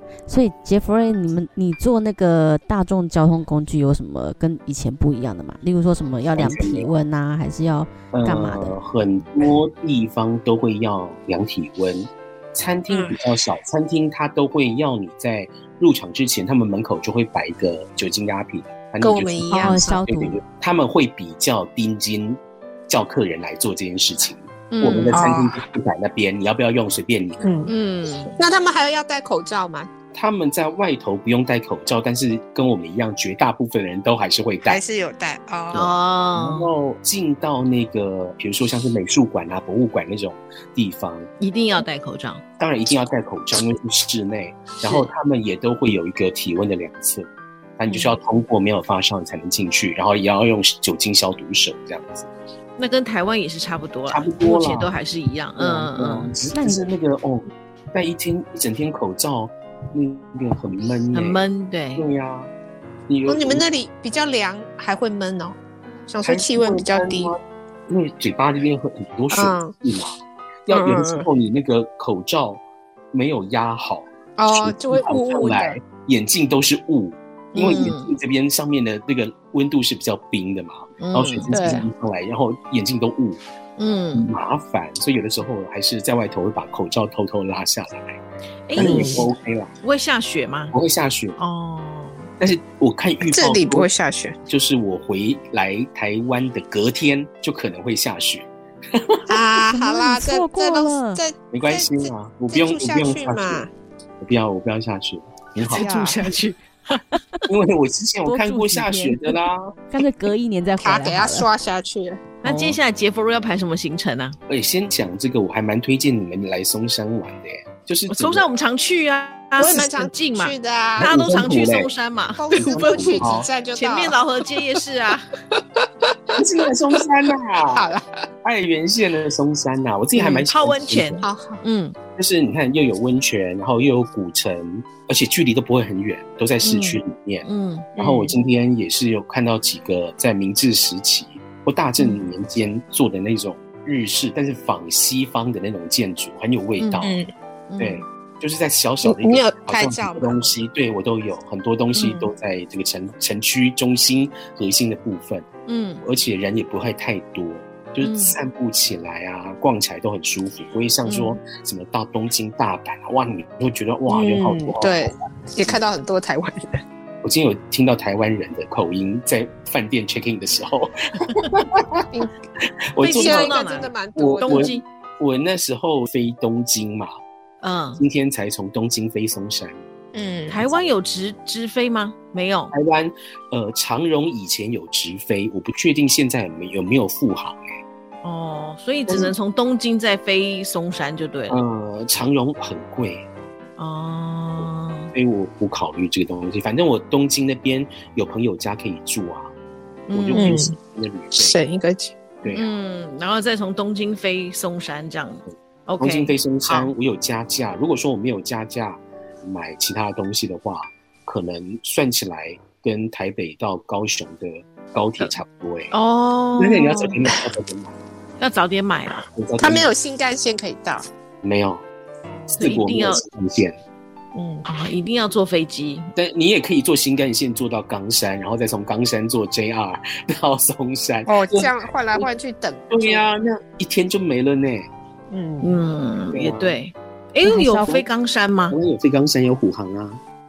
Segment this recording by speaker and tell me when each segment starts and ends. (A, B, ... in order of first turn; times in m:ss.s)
0:00.3-0:08.8 A
0:06.4-0:07.0 B
0:08.1-0:27.5 B
0:12.9-0:13.2 C
0:19.0-0:19.9 C
0:19.5-0:20.4 A
0:24.7-0:25.2 D
0:25.1-0:25.6 C
0:27.4-0:27.7 C
0:27.7-0:28.4 D
0:28.4-0:29.9 C
0:30.1-0:34.8 B
0:34.7-0:35.9 C
0:35.7-0:36.7 D
0:35.7-0:41.3 B
0:41.4-0:42.4 D
0:42.6-0:52.3 B
0:44.8-0:45.1 D
0:47.9-0:48.2 C
0:52.8-0:56.3 D
0:54.1-0:54.9 B
0:55.6-1:01.4 B
0:56.5-0:56.9 A
1:01.1-1:02.1 D
1:02.0-1:02.5 B
1:03.1-1:03.6 B
1:03.3-1:05.6 C
1:06.1-1:07.3 C
1:06.2-1:10.2 B
1:09.3-1:09.7 C
1:10.7-1:12.6 B
1:10.7-1:11.3 C
1:13.1-1:23.4 B
1:14.4-1:15.8 C
1:17.5-1:18.1 D
1:21.0-1:21.8 D
1:21.5-1:21.8 C
1:23.8-1:24.3 D
1:24.2-1:28.2 B
1:28.7-1:29.3 D
1:28.7-1:29.7 B
1:28.8-1:29.3 C
1:29.8-1:30.7 D
1:30.7-1:31.4 B
1:31.4-1:32.3 D
1:32.4-1:33.9 B
1:33.2-1:34.4 C
1:34.5-1:39.2 B
1:39.3-1:43.7 C
1:39.7-1:41.2 A
1:41.5-1:43.7 B
1:44.2-1:45.9 B
1:45.6-1:47.2 D
1:45.7-1:46.2 C
1:47.5-1:49.7 B
1:48.2-1:49.4 A
1:49.9-1:51.5 A
1:50.8-1:52.2 C
1:52.4-1:54.4 D
1:52.4-1:52.8 B
1:54.5-1:58.5 B
1:58.1-2:05.3 D
1:59.6-2:01.2 C
2:01.0-2:01.9 B
2:02.4-2:04.2 C
2:02.6-2:03.5 B
2:05.5-2:06.4 C
2:06.3-2:07.9 B
2:07.7-2:08.1 C
2:08.4-2:11.2 B
2:10.2-2:12.0 D
2:11.2-2:11.6 C
2:12.2-2:17.5 B
2:16.6-2:18.1 D
2:18.0-2:18.3 C
2:18.0-2:27.2 B
2:26.8-2:27.1 D
2:27.0-2:27.3 C
2:27.7-2:28.0 D
2:27.8-2:35.4 B
2:29.0-2:30.5 C
2:32.0-2:32.3 D
2:35.7-2:36.0 D
2:36.0-2:45.8 B
2:38.0-2:38.4 D
2:41.1-2:41.4 D
2:44.1-2:46.8 C
2:47.2-2:52.1 B
2:53.0-2:53.6 B
2:53.0-2:54.8 C
2:53.0-2:54.8 D
2:54.2-2:57.1 B
2:57.6-2:58.0 D
2:58.0-2:59.8 B
3:00.1-3:00.6 C
3:00.5-3:02.7 D
3:00.6-3:00.9 B
3:02.7-3:07.6 B
3:08.2-3:11.6 D
3:09.1-3:09.3 B
3:11.5-3:13.2 B
3:13.8-3:15.1 D
3:14.6-3:19.5 B
3:20.1-3:20.6 D
3:20.1-3:21.6 B
3:20.4-3:20.8 C
3:21.3-3:22.2 C
3:22.4-3:22.7 B
3:22.5-3:26.9 D
3:25.5-3:35.9 B
3:35.9-3:37.1 D
3:36.6-3:37.9 B
3:38.4-3:39.2 D
3:39.3-3:39.9 B
3:39.6-3:41.0 C
3:41.4-3:41.8 B
3:42.3-3:42.7 C
3:42.5-3:43.2 D
3:42.5-3:43.8 B
3:44.4-3:44.7 C
3:44.7-3:46.1 D
3:46.2-3:52.3 B
3:51.3-3:53.2 C
3:52.9-3:54.9 B
3:55.3-3:55.8 C
3:55.6-3:58.8 D
3:56.3-3:56.8 B
3:57.5-3:57.7 A
3:57.6-3:58.1 B
3:58.7-4:00.2 B